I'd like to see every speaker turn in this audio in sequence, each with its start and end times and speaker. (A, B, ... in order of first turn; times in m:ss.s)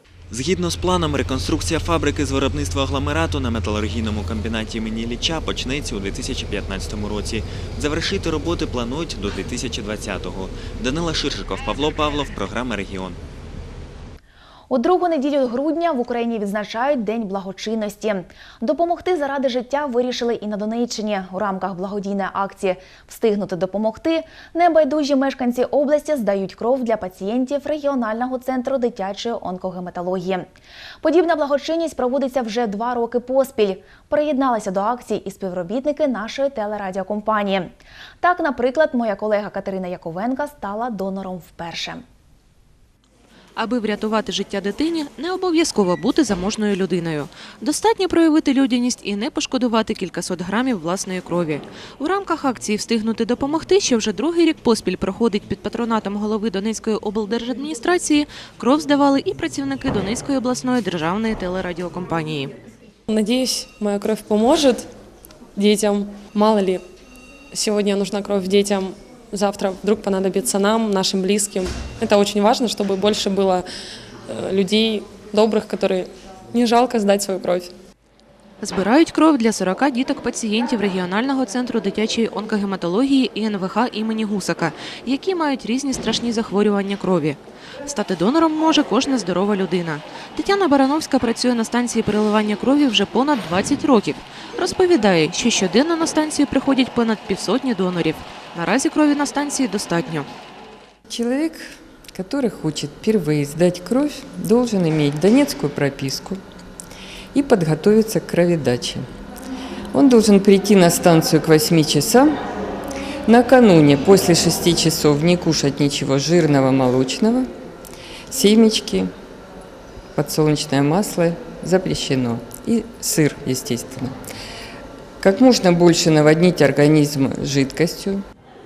0:00.3-0:13.2 A
0:14.7-0:30.5 B
0:31.0-0:42.0 B
0:43.6-1:02.5 C
1:03.1-1:04.9 D
1:05.6-1:06.8 D
1:07.5-1:13.6 D
1:14.3-1:17.7 D
1:18.6-1:40.3 C
1:41.1-1:41.6 E
1:42.1-1:46.4 E
1:47.3-1:49.0 E
1:49.9-1:52.3 E
1:53.2-1:57.5 E
1:58.3-1:59.1 E
2:00.2-2:04.1 E
2:05.2-2:08.2 E